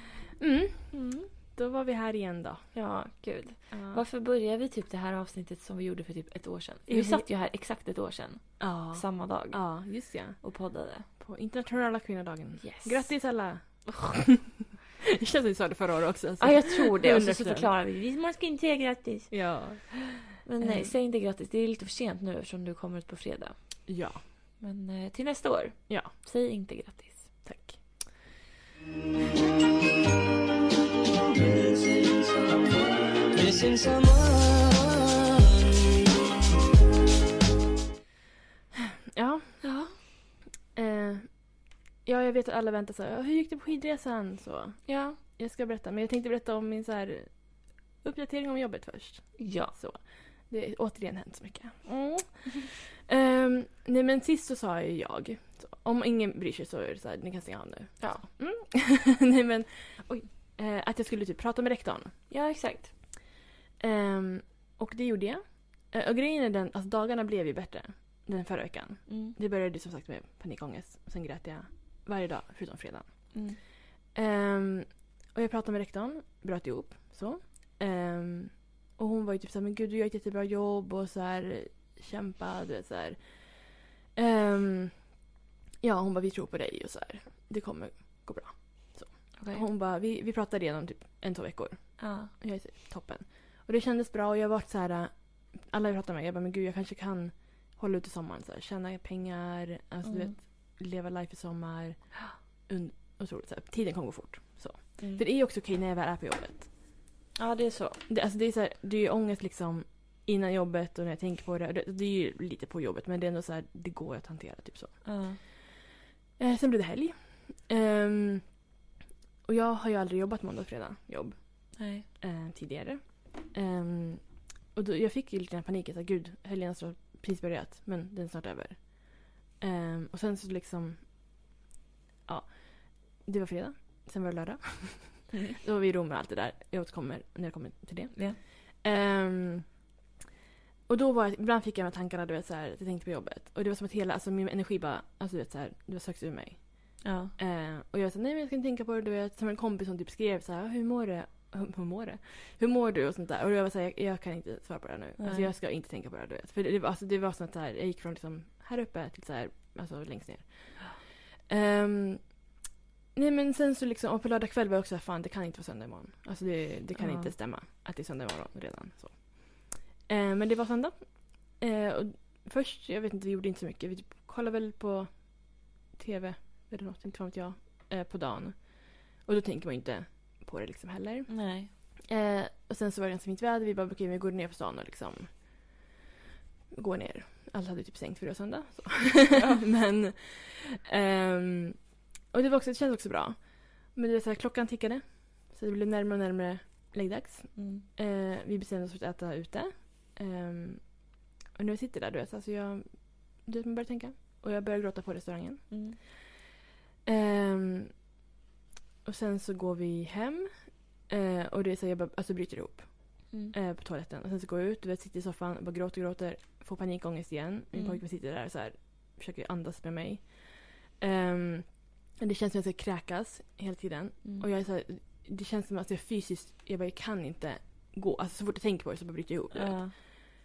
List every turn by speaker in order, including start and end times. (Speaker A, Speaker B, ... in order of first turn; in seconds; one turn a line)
Speaker A: 0.4-1.0
Speaker B: 0.9-1.3
Speaker A: 1.5-2.7
Speaker B: 2.7-9.8
Speaker A: 3.7-4.0
Speaker A: 6.9-7.2
Speaker A: 8.6-10.4
Speaker B: 10.4-11.1
Speaker A: 11.2-17.7
Speaker B: 12.6-13.1
Speaker B: 16.4-23.6
Speaker A: 19.3-20.9
Speaker A: 23.9-24.2
Speaker B: 24.6-27.3
Speaker A: 27.4-27.8
Speaker C: 31.3-36.0
Speaker A: 39.1-39.6
Speaker B: 39.6-39.9
Speaker A: 40.8-41.5
Speaker A: 42.0-47.3
Speaker B: 44.9-45.2
Speaker A: 48.0-62.1
Speaker B: 49.4-49.7
Speaker B: 62.3-62.9
Speaker A: 63.8-73.3
Speaker B: 69.1-69.4
Speaker B: 73.3-73.6
Speaker A: 74.1-83.3
Speaker A: 84.2-85.1
Speaker A: 85.8-102.2
Speaker B: 89.4-89.6
Speaker B: 92.0-92.3
Speaker B: 100.0-100.3
Speaker A: 102.7-106.7
Speaker B: 107.4-108.0
Speaker A: 108.1-115.0
Speaker B: 115.0-115.4
Speaker A: 116.4-118.5
Speaker A: 119.5-131.0
Speaker B: 121.8-122.1
Speaker A: 132.3-139.7
Speaker A: 140.9-162.4
Speaker B: 147.0-147.3
Speaker B: 155.2-155.5
Speaker A: 163.2-185.6
Speaker B: 167.0-167.3
Speaker B: 181.3-181.7
Speaker A: 186.7-201.0
Speaker B: 189.3-189.6
Speaker B: 197.6-197.8
Speaker A: 201.6-205.7
Speaker B: 205.7-206.0
Speaker A: 207.1-207.9
Speaker A: 209.1-230.1
Speaker B: 217.7-218.0
Speaker B: 229.5-229.9